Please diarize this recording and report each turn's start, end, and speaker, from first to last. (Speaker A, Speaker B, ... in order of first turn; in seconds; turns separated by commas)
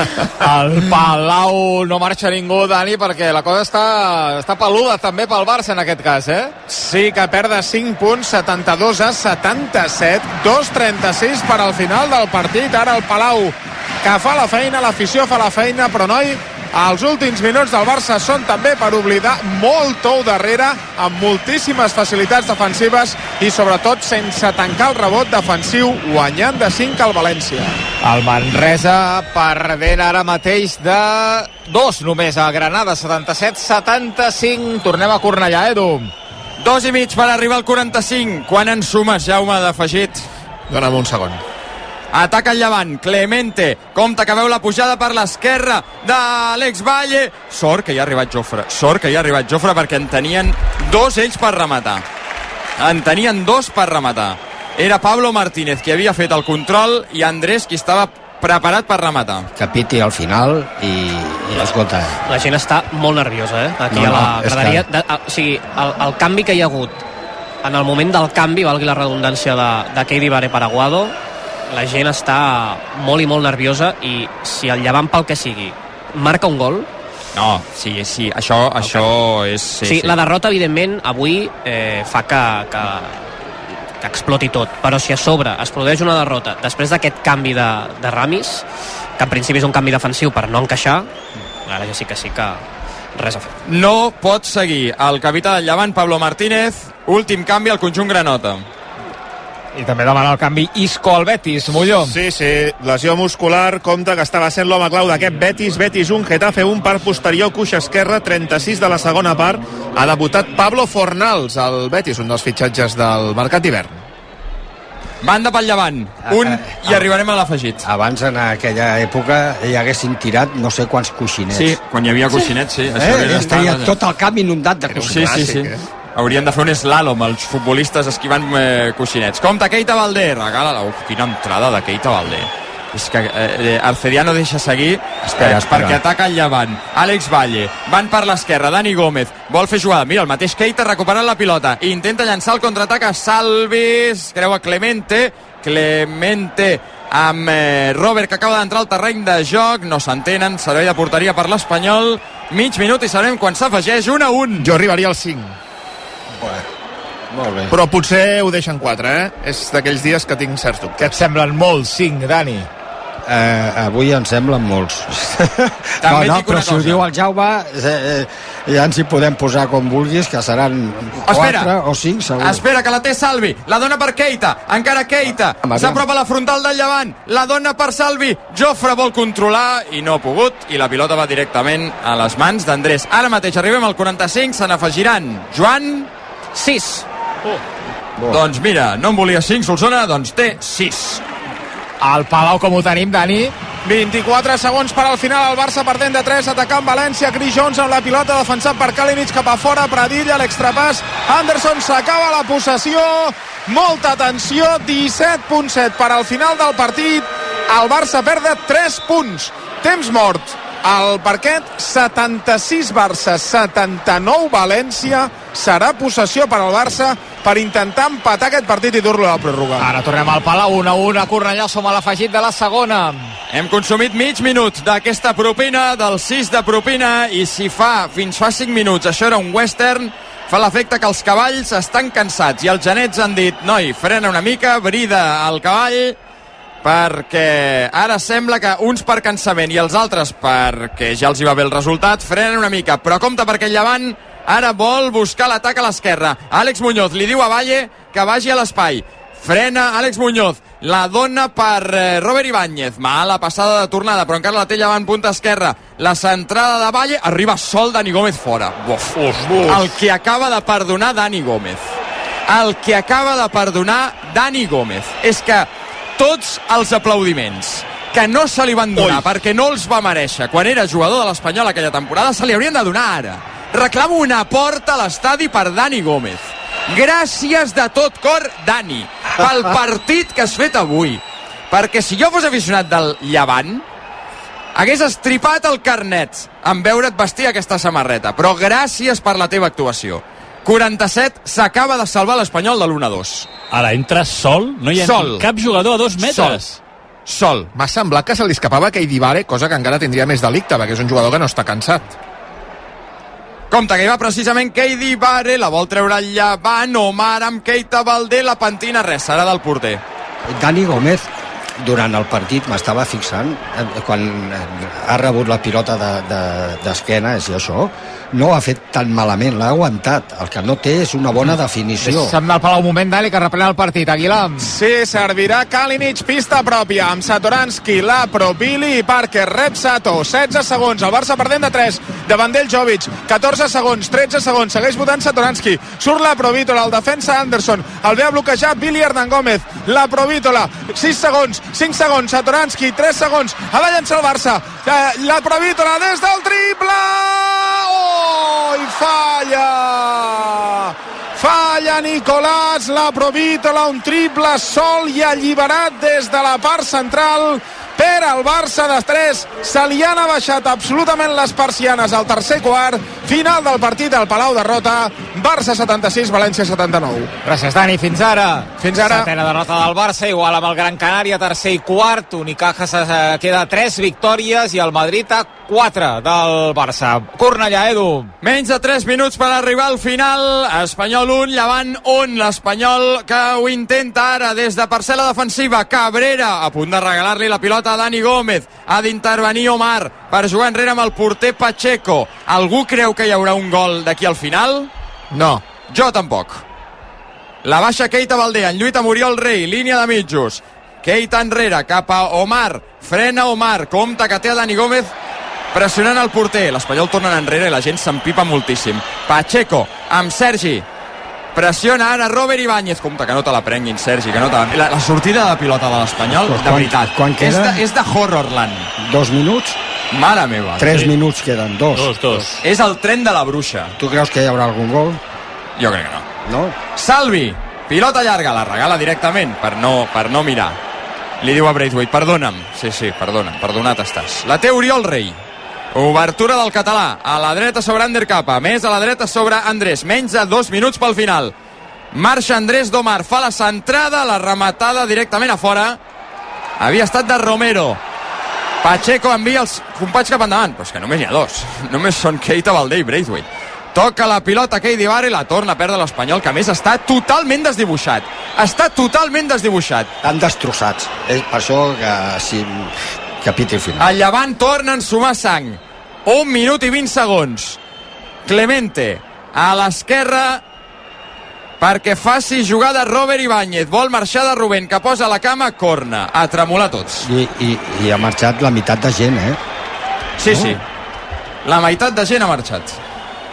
Speaker A: 0.4-6.5, Speaker B: 6.7-27.8, Speaker A: 28.0-36.1, Speaker C: 36.6-40.2, Speaker D: 40.7-41.4, Speaker C: 42.1-52.0, Speaker C: 52.8-59.5, Speaker E: 59.5-62.2, Speaker F: 62.3-67.0, Speaker E: 63.9-64.8, Speaker F: 67.6-71.1, Speaker F: 71.7-76.9, Speaker C: 77.3-80.1, Speaker F: 78.8-79.1, Speaker F: 79.8-83.4, Speaker F: 84.0-88.6, Speaker F: 89.2-91.1, Speaker F: 91.7-92.6, Speaker F: 93.1-93.5, Speaker C: 93.7-98.6, Speaker A: 99.7-102.2, Speaker D: 102.0-114.0, Speaker C: 115.2-117.8, Speaker E: 116.3-117.0, Speaker E: 117.8-121.8, Speaker C: 121.5-123.9, Speaker E: 122.9-125.5, Speaker D: 124.9-125.8, Speaker C: 125.0-154.7, Speaker E: 135.2-136.0, Speaker D: 154.6-155.6, Speaker E: 156.4-156.7, Speaker E: 157.3-157.7, Speaker D: 157.7-161.1, Speaker A: 161.0-162.7, Speaker E: 163.2-172.6, Speaker C: 166.0-167.0, Speaker C: 171.3-171.7, Speaker C: 172.4-186.1, Speaker E: 175.6-176.0, Speaker F: 186.5-187.1, Speaker C: 188.3-191.2, Speaker A: 192.0-193.5, Speaker B: 193.8-219.9, Speaker A: 219.8-223.3, Speaker C: 223.5-236.2, Speaker C: 236.8-261.9, Speaker D: 259.4-259.7, Speaker C: 262.5-283.8, Speaker D: 269.0-269.2, Speaker C: 284.7-293.5, Speaker G: 293.7-296.7, Speaker C: 294.9-295.5, Speaker C: 296.2-296.7, Speaker C: 297.2-297.7, Speaker D: 297.7-302.1, Speaker C: 303.7-310.0, Speaker E: 310.5-311.3, Speaker E: 311.8-322.3, Speaker A: 322.0-324.7, Speaker B: 324.6-367.3, Speaker A: 367.4-378.3, Speaker B: 368.8-369.3, Speaker C: 378.4-394.9, Speaker D: 395.3-395.6, Speaker C: 395.9-396.6, Speaker C: 397.6-405.1, Speaker C: 405.7-410.8, Speaker C: 411.5-418.9, Speaker E: 416.3-417.8, Speaker E: 419.0-419.8, Speaker C: 420.1-420.9, Speaker E: 420.8-422.6, Speaker G: 421.9-422.4, Speaker C: 422.6-423.9, Speaker E: 424.0-425.2, Speaker C: 425.8-426.2, Speaker E: 426.4-426.8, Speaker C: 426.9-430.8, Speaker C: 431.4-435.4, Speaker C: 435.9-441.5, Speaker C: 442.1-446.0, Speaker C: 446.8-448.0, Speaker C: 448.8-460.1, Speaker E: 460.2-464.1, Speaker C: 464.0-467.8, Speaker C: 468.4-470.6, Speaker C: 471.8-477.3, Speaker E: 477.2-479.6, Speaker C: 480.4-480.8, Speaker E: 480.5-480.8, Speaker C: 481.6-483.0